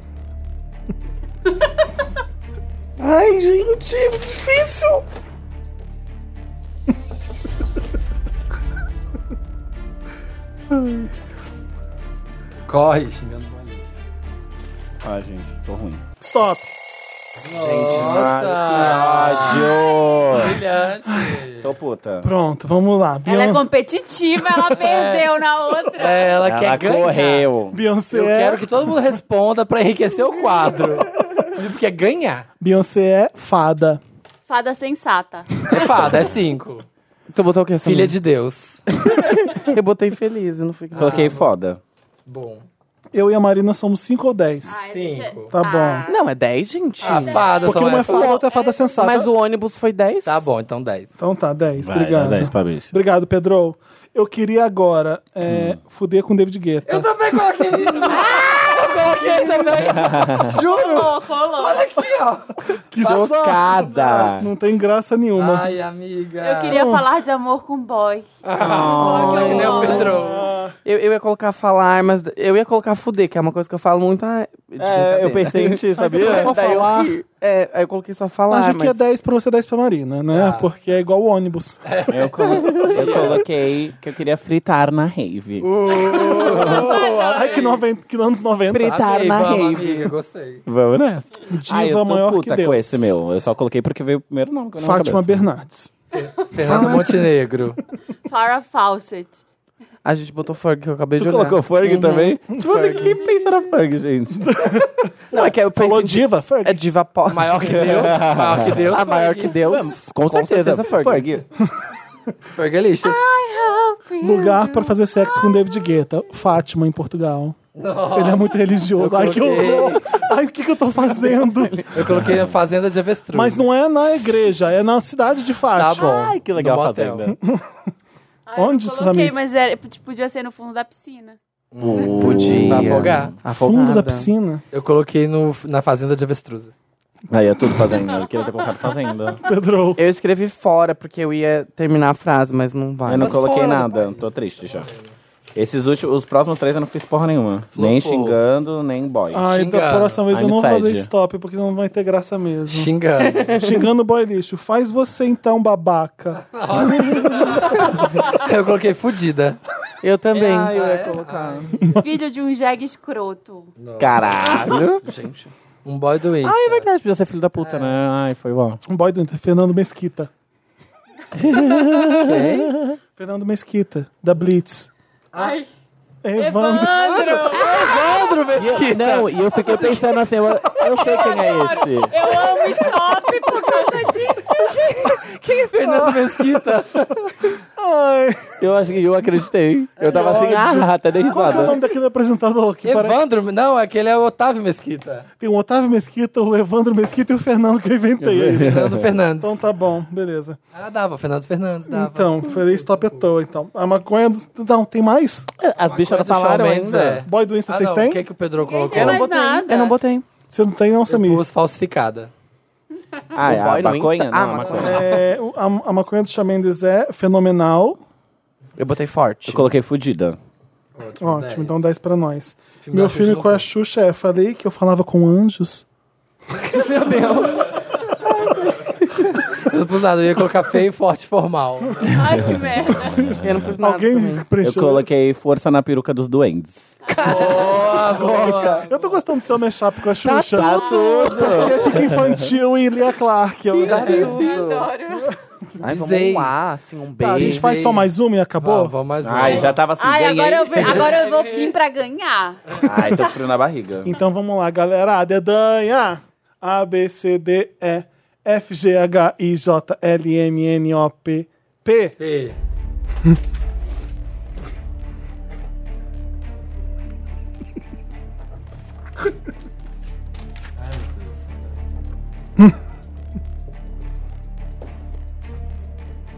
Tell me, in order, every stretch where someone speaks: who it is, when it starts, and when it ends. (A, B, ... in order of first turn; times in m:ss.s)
0:03.0-0:05.0 A
0:12.6-0:13.9 B
0:15.0-0:16.0 C
0:16.2-0:16.7 D
0:17.5-0:21.7 B
0:17.5-0:20.6 C
0:17.6-0:18.3 A
0:19.7-0:20.2 E
0:21.1-0:21.4 D
0:21.6-0:22.3 C
0:22.2-0:23.6 D
0:23.2-0:26.3 E
0:24.7-0:25.3 B
0:25.9-0:27.5 B
0:26.4-0:27.8 C
0:27.7-0:28.6 D
0:28.1-0:32.5 B
0:32.6-0:34.0 D
0:34.5-0:35.5 E
0:35.7-0:36.9 B
0:36.0-0:36.3 C
0:37.3-0:38.1 A
0:37.8-0:38.8 B
0:38.9-0:41.3 A
0:40.9-0:41.5 B
0:40.9-0:41.8 C
0:42.3-0:42.6 B
0:43.1-0:44.8 D
0:44.6-0:46.2 E
0:44.9-0:45.5 B
0:45.5-0:46.1 D
0:46.1-0:47.5 A
0:47.0-0:48.4 B
0:47.0-0:49.0 E
0:47.6-0:49.3 D
0:49.0-0:50.5 A
0:50.2-0:51.1 B
0:51.2-0:57.1 D
0:51.8-0:52.9 C
0:55.4-0:55.8 C
0:56.9-1:01.0 B
0:58.1-1:01.9 E
0:59.7-1:00.6 C
1:01.5-1:04.2 B
1:02.9-1:05.7 D
1:03.0-1:04.5 C
1:05.4-1:06.8 B
1:06.4-1:10.2 E
1:06.7-1:07.1 D
1:08.4-1:10.5 B
1:08.6-1:10.2 C
1:09.3-1:10.8 D
1:10.8-1:19.0 A
1:14.8-1:16.8 C
1:15.9-1:17.2 D
1:18.5-1:21.8 D
1:20.3-1:20.7 B
1:21.8-1:23.4 B
1:22.1-1:26.9 C
1:25.6-1:27.8 B
1:26.0-1:29.1 D
1:26.6-1:27.8 E
1:28.7-1:30.1 C
1:28.8-1:30.6 B
1:30.6-1:35.4 C
1:31.5-1:33.2 D
1:34.8-1:35.9 D
1:36.1-1:37.8 B
1:36.7-1:37.2 D
1:38.2-1:39.4 E
1:40.0-1:43.1 A
1:41.2-1:44.7 C
1:44.5-1:46.9 D
1:45.3-1:48.2 A
1:47.3-1:49.8 B
1:47.7-1:48.8 C
1:48.9-1:51.3 A
1:49.7-1:50.0 D
1:50.0-1:51.4 C
1:52.6-1:53.3 B
1:53.0-1:54.9 E
1:54.2-1:57.6 D
1:57.8-2:00.1 B
1:58.1-2:01.9 D
2:01.3-2:01.8 A
2:01.9-2:03.6 B
2:01.9-2:02.5 C
2:03.3-2:06.4 D
2:05.8-2:07.3 B
2:05.9-2:07.4 C
2:07.3-2:07.6 D
2:08.5-2:11.4 E
2:08.6-2:09.4 D
2:11.7-2:13.4 B
2:11.8-2:13.4 C
2:11.9-2:14.3 A
2:13.5-2:14.6 D
2:14.7-2:16.8 B
2:17.3-2:19.4 C
2:18.1-2:18.4 E
2:19.4-2:20.0 D
2:20.0-2:23.4 A
2:23.1-2:24.9 C
2:23.1-2:25.1 B
2:25.5-2:29.5 C
2:27.7-2:28.4 B
2:29.3-2:32.9 D
2:29.5-2:30.2 B
2:30.3-2:31.1 C
2:32.7-2:33.6 B
2:33.5-2:37.8 D
2:36.4-2:39.6 B
2:40.0-2:40.7 A
2:40.3-2:41.9 C
2:40.7-2:41.8 B
2:42.0-2:43.7 E
2:43.8-2:44.5 B
2:44.0-2:45.0 C
2:44.6-2:45.5 A
2:45.8-2:46.9 B
2:46.4-2:48.8 C
2:47.6-2:48.0 B
2:48.9-2:50.3 D
2:51.4-2:53.0 C
2:51.5-2:52.1 D
2:52.1-2:52.8 B
2:53.2-2:54.9 D
2:55.3-2:55.7 E
2:56.2-2:57.6 D
2:56.4-2:58.0 E
2:57.5-3:00.0 B
2:58.6-3:02.1 C
3:00.7-3:04.8 E
3:04.5-3:07.3 B
3:05.8-3:06.8 D
3:07.4-3:08.6 D
3:08.6-3:11.8 C
3:10.0-3:10.7 B
3:10.0-3:13.2 D
3:11.5-3:11.8 B
3:12.8-3:15.3 B
3:15.4-3:18.8 D
3:18.2-3:19.1 C
3:18.6-3:19.6 B
3:19.4-3:20.6 D
3:20.7-3:23.2 B
3:21.9-3:25.5 D
3:25.6-3:27.2 C
3:25.8-3:29.3 B
3:27.2-3:28.2 D
3:28.6-3:30.0 E
3:28.9-3:30.3 A
3:30.5-3:31.4 D
3:31.1-3:32.3 B
3:33.3-3:35.1 C
3:33.4-3:35.2 A
3:34.8-3:38.0 D
3:38.8-3:39.7 A
3:39.5-3:40.4 C
3:41.0-3:41.8 B
3:41.2-3:45.8 D
3:42.8-3:43.7 B
3:46.6-3:47.7 A
3:46.9-3:47.2 D
3:49.5-3:52.4 B
3:52.1-3:53.2 E
3:52.9-3:55.2 D
3:53.4-3:54.5 A
3:54.6-3:58.8 C
3:57.1-3:57.5 E
3:57.1-3:57.7 A
3:57.2-3:59.1 B
3:58.0-4:04.5 D
4:00.2-4:02.5 C
4:00.3-4:00.7 A
4:00.6-4:01.7 E
4:03.6-4:04.9 A
4:03.8-4:04.5 B
4:04.0-4:05.3 E
4:05.1-4:05.9 D
4:05.8-4:07.7 A
4:05.9-4:06.5 B
4:07.2-4:09.6 D
4:07.3-4:09.8 B
4:09.2-4:11.1 C
4:10.0-4:13.3 E
4:11.1-4:11.7 B
4:12.8-4:14.1 C
4:14.0-4:22.2 D
4:22.2-4:22.6 B
4:30.8-4:31.6 B